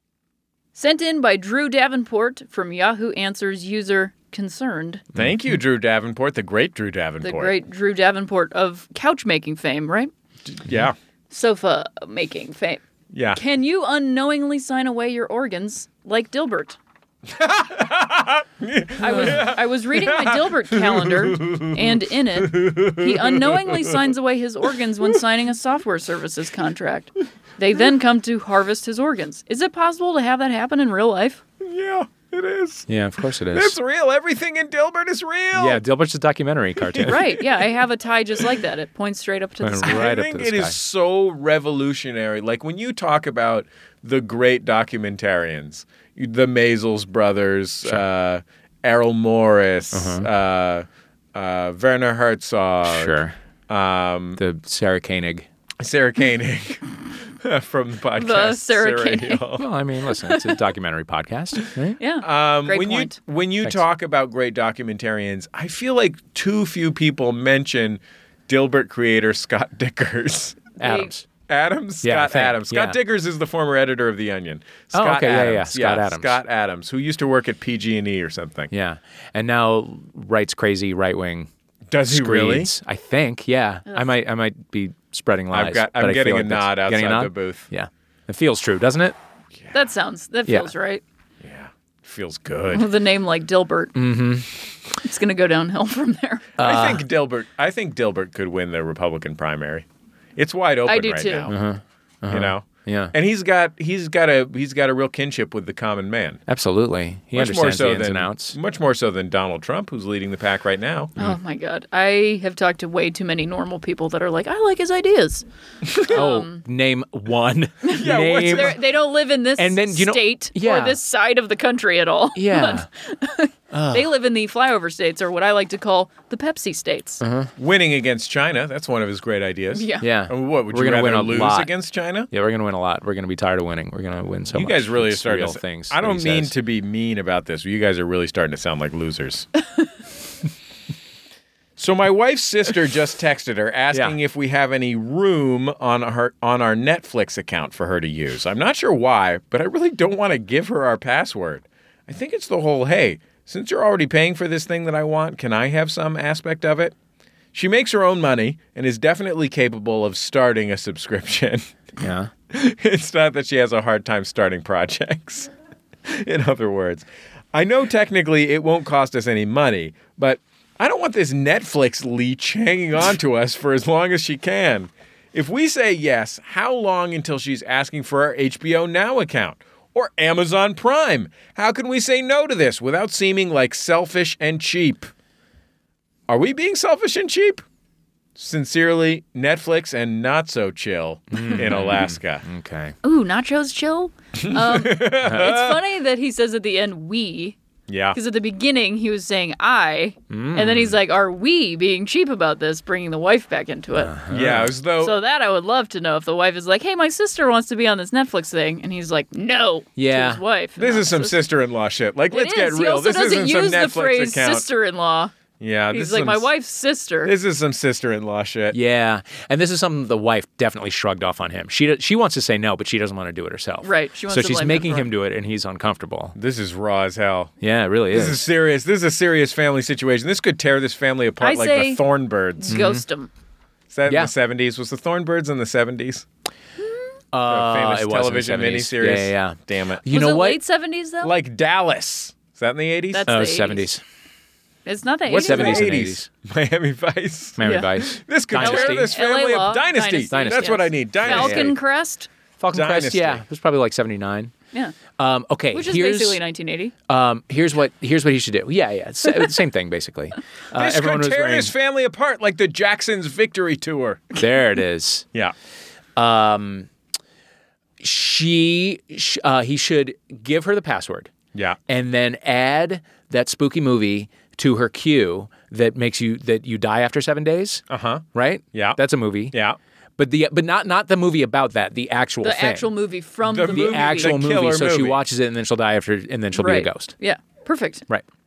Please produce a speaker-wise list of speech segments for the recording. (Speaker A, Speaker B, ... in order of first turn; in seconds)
Speaker A: 0.8-5.0, 7.2-10.1, 11.3-12.8, 13.3-16.8, 19.0-31.4, 37.0-40.0, 58.2-59.4, 60.2-60.6, 62.0-63.2, 70.8-71.1, 89.7-91.0, 92.7-94.0, 95.0-96.4, 100.9-101.5, 111.2-115.4, 116.1-116.6, 117.8-127.2, 129.7-130.1, 193.0-197.6, 198.1-204.1, 205.0-211.4, 212.3-215.3, 215.9-217.3, 223.8-225.1, 231.4-232.0, 232.6-233.3, 240.1-241.3, 243.1-243.9, 244.9-245.9, 247.6-247.9, 248.6-252.3, 255.7-256.9, 282.4-284.3, 286.6-288.1
Speaker B: 5.1-7.5, 10.5-10.9, 13.1-13.4, 17.3-24.1, 31.6-32.9, 33.5-35.8, 36.9-37.3, 39.8-54.4, 55.8-59.7, 62.2-70.8, 71.5-78.7, 81.9-82.7, 85.5-87.7, 91.4-92.9, 96.6-99.9, 100.4-101.5, 102.3-106.4, 107.3-111.2, 118.0-118.8, 127.6-132.3, 134.5-139.5, 141.8-156.9, 157.5-161.7, 162.5-165.5, 166.1-185.1, 186.3-187.6, 188.4-192.4, 194.4-195.8, 197.9-198.2, 204.3-205.2, 210.8-214.7, 215.6-216.5, 217.2-218.8, 226.4-227.5, 228.1-232.8, 233.9-236.3, 237.5-240.0, 241.2-243.3, 245.3-251.8, 252.7-253.4, 260.7-264.4, 277.9-279.0, 279.5-279.8, 283.4-285.2
Speaker C: 32.9-33.8, 35.5-37.2, 39.6-40.8, 49.9-50.3, 52.8-53.4, 54.4-55.5, 59.6-62.0, 70.8-71.3, 72.0-73.0, 74.9-76.4, 78.7-81.5, 82.1-89.2, 94.0-94.5, 96.6-97.0, 101.5-103.1, 106.5-108.6, 116.1-118.8, 119.6-121.0, 122.3-122.9, 123.7-124.1, 127.2-127.5, 130.0-131.7, 132.3-136.5, 143.9-144.2, 162.0-162.3, 191.3-193.0, 195.2-195.6, 200.3-201.0, 203.9-204.8, 210.0-210.4, 218.7-226.4, 227.6-228.4, 232.7-233.0, 234.1-234.3, 237.3-240.6, 243.3-244.0, 245.3-246.3, 247.6-249.1, 250.3-251.7, 252.6-254.5, 255.2-256.4, 257.1-261.7, 264.4-265.3, 266.2-266.9, 268.0-271.3, 271.9-277.8, 278.4-279.6, 280.2-282.9, 283.6-287.1